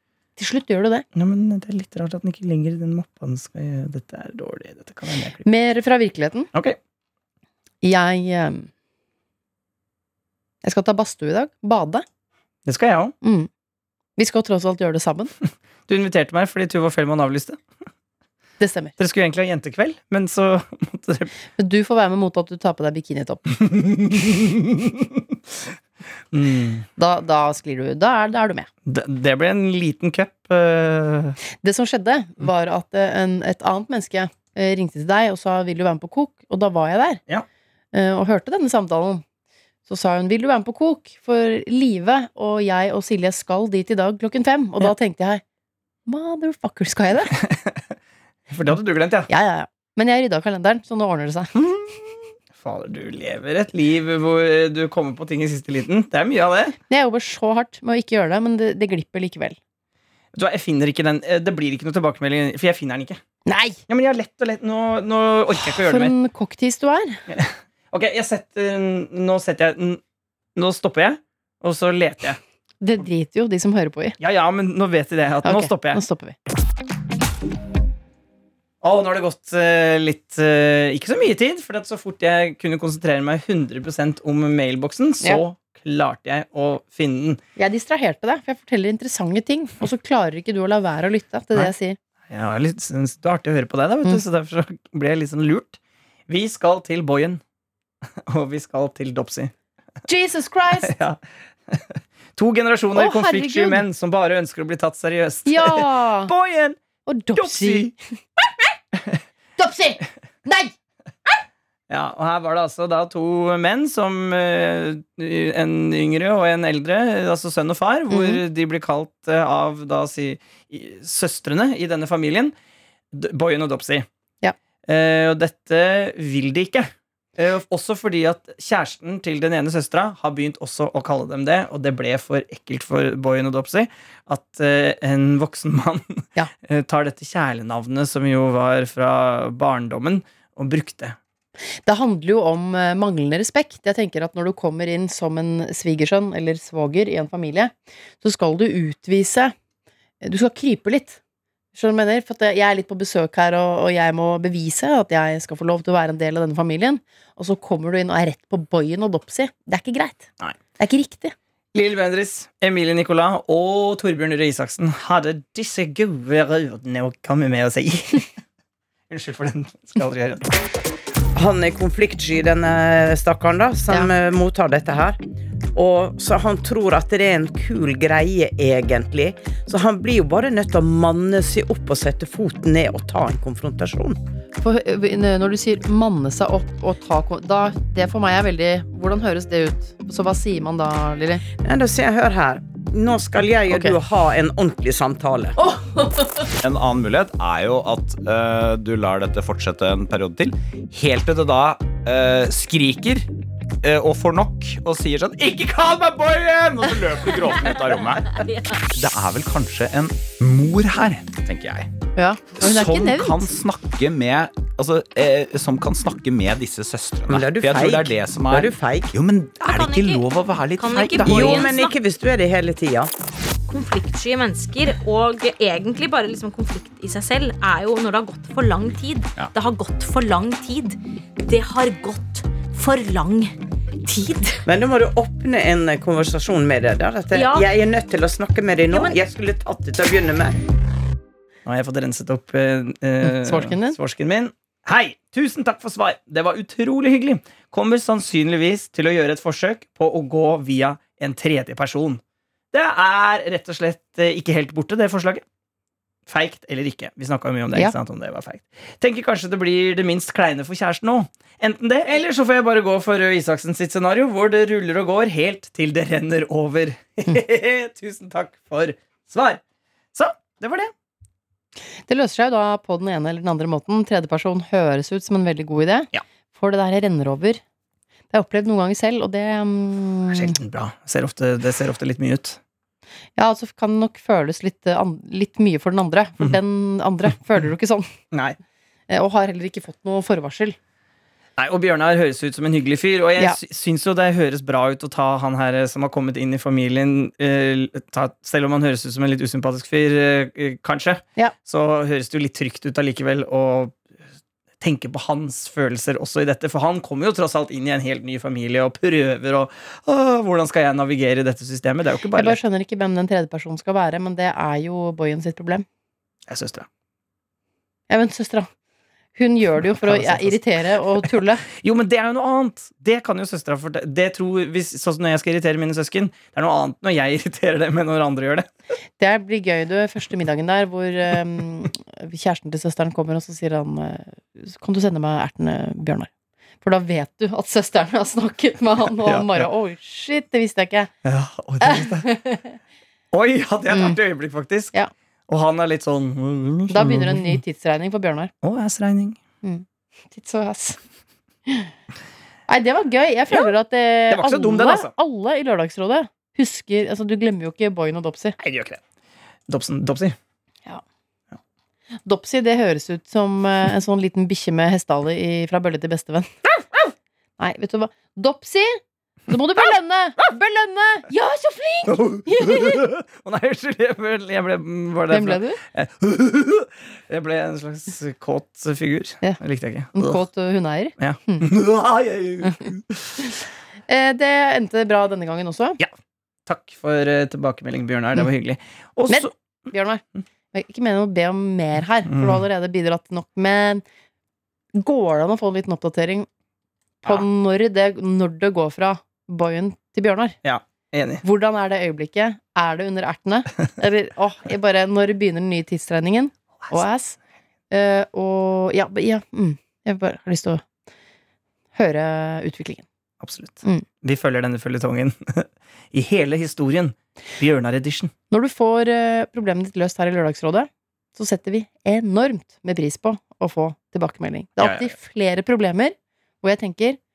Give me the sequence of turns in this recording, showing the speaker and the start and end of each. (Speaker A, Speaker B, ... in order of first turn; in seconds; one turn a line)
Speaker A: 0.4-1.1
Speaker B: 1.1-5.4
Speaker A: 5.4-6.5
Speaker A: 7.8-8.7
Speaker A: 10.6-12.0
Speaker B: 12.7-13.1
Speaker A: 13.2-13.5
Speaker A: 14.2-15.3
Speaker B: 15.9-17.6
Speaker A: 18.6-18.9
Speaker B: 19.0-21.3
Speaker A: 21.6-23.6
Speaker B: 23.6-25.4
Speaker B: 26.3-26.9
Speaker A: 26.9-28.7
Speaker B: 28.9-31.4
Speaker A: 31.6-37.2
Speaker A: 37.9-39.2
Speaker A: 39.9-45.4
Speaker A: 46.1-47.3
Speaker B: 47.5-47.9
Speaker B: 48.5-49.3
Speaker A: 49.3-51.6
Speaker B: 51.6-56.8
Speaker A: 56.9-59.6
Speaker B: 60.3-63.2
Speaker A: 63.5-63.8
Speaker B: 63.9-66.1
Speaker A: 65.9-67.2
Speaker B: 67.3-70.0
Speaker B: 70.6-72.4
Speaker A: 72.8-74.2
Speaker B: 74.2-76.0
Speaker A: 75.4-76.4
Speaker B: 78.8-87.4
Speaker A: 87.6-92.0
Speaker B: 92.3-97.4
Speaker B: 98.3-99.5
Speaker A: 100.1-100.9
Speaker B: 100.8-101.2
Speaker B: 101.7-106.8
Speaker A: 102.9-103.8
Speaker A: 105.5-106.3
Speaker A: 107.1-108.0
Speaker B: 107.3-107.9
Speaker A: 109.6-110.7
Speaker B: 111.9-122.5
Speaker A: 118.1-118.4
Speaker B: 123.1-124.1
Speaker B: 124.9-141.2
Speaker A: 141.8-149.5
Speaker A: 150.2-151.2
Speaker A: 151.7-160.2
Speaker A: 160.8-161.3
Speaker B: 161.7-168.3
Speaker B: 169.1-170.5
Speaker C: 171.3-175.2
Speaker C: 175.8-184.2
Speaker A: 184.6-191.4
Speaker C: 191.5-195.6
Speaker A: 195.7-196.4
Speaker D: 196.7-203.2
Speaker D: 203.8-208.3
Speaker D: 208.9-211.8
Speaker A: 212.2-213.2
Speaker D: 212.6-221.5
Speaker C: 217.3-219.1
Speaker E: 219.7-222.0
Speaker C: 221.1-223.1
Speaker E: 223.7-234.6
Speaker C: 234.7-240.6
Speaker E: 237.3-237.7
Speaker E: 238.9-239.2
Speaker B: 241.7-252.2
Speaker A: 243.2-244.0
Speaker B: 252.7-255.4
Speaker B: 256.3-269.6
Speaker B: 270.1-270.9
Speaker A: 272.1-277.6
Speaker A: 278.3-280.6
Speaker B: 280.3-282.6
Speaker A: 283.4-288.1
Speaker A: 289.1-290.8
Speaker B: 291.6-304.1
Speaker B: 304.8-312.6
Speaker A: 312.3-315.8
Speaker B: 316.5-316.9
Speaker A: 318.1-318.7
Speaker A: 319.3-321.6
Speaker B: 320.0-328.7
Speaker A: 329.2-336.3
Speaker A: 336.8-341.1
Speaker B: 339.2-339.7
Speaker B: 341.2-342.4
Speaker A: 341.9-342.7
Speaker B: 343.3-344.9
Speaker A: 343.9-344.2
Speaker B: 345.5-347.6
Speaker A: 346.9-348.5
Speaker B: 348.6-349.4
Speaker A: 349.6-351.0
Speaker A: 352.7-358.6
Speaker B: 354.3-355.1
Speaker B: 358.6-359.0
Speaker B: 359.7-360.4
Speaker A: 362.2-366.6
Speaker A: 367.6-373.0
Speaker B: 372.1-380.4
Speaker A: 375.3-375.8
Speaker A: 380.2-381.7
Speaker B: 381.2-383.3
Speaker A: 384.1-386.0
Speaker B: 386.7-389.5
Speaker A: 389.3-394.0
Speaker B: 392.3-392.6
Speaker A: 394.9-396.5
Speaker A: 397.2-400.6
Speaker B: 400.6-401.4
Speaker A: 401.4-407.4
Speaker A: 407.9-410.8
Speaker A: 411.9-413.1
Speaker B: 413.4-418.3
Speaker A: 418.5-427.2
Speaker B: 424.8-425.1